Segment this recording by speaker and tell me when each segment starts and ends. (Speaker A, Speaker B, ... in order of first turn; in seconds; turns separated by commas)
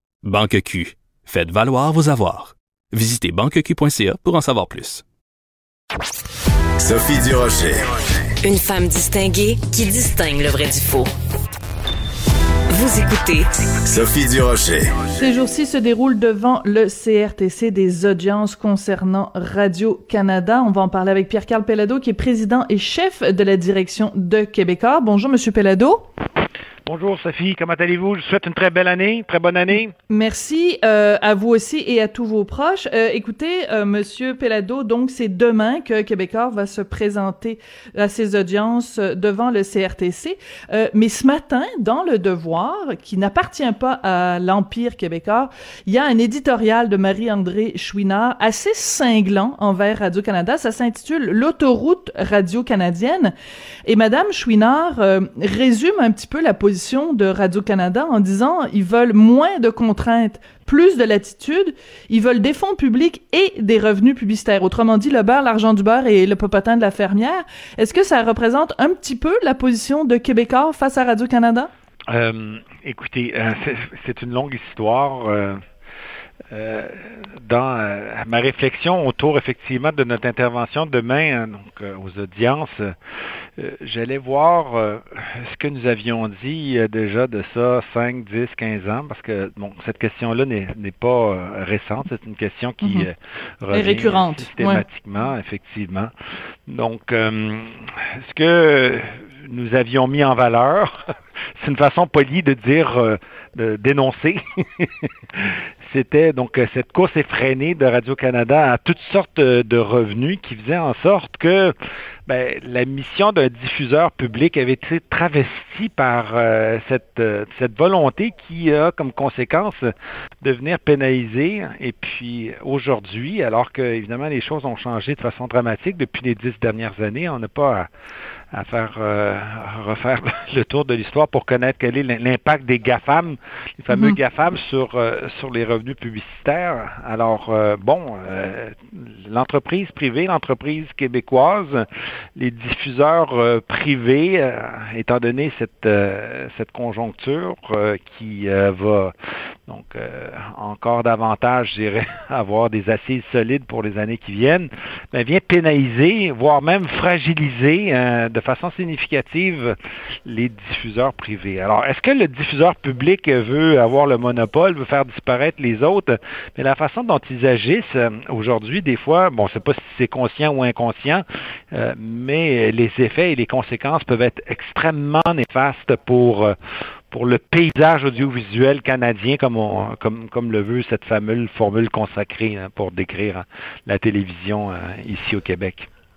Speaker A: 0.2-5.0, Speaker B: 6.8-8.1, Speaker C: 8.4-11.1, Speaker C: 12.7-13.5, Speaker B: 13.8-15.1, Speaker D: 15.1-26.1, Speaker E: 26.9-29.9, Speaker D: 30.1-53.3, Speaker D: 53.9-71.7, Speaker E: 72.1-75.6, Speaker E: 76.5-82.9, Speaker E: 83.6-96.1, Speaker D: 92.8-93.1, Speaker D: 93.7-94.8, Speaker E: 96.7-101.0, Speaker E: 101.6-111.7, Speaker E: 112.3-127.9, Speaker E: 128.5-141.8, Speaker D: 133.9-134.2, Speaker E: 142.4-149.1, Speaker E: 149.7-159.7, Speaker E: 160.3-176.5, Speaker E: 177.1-185.9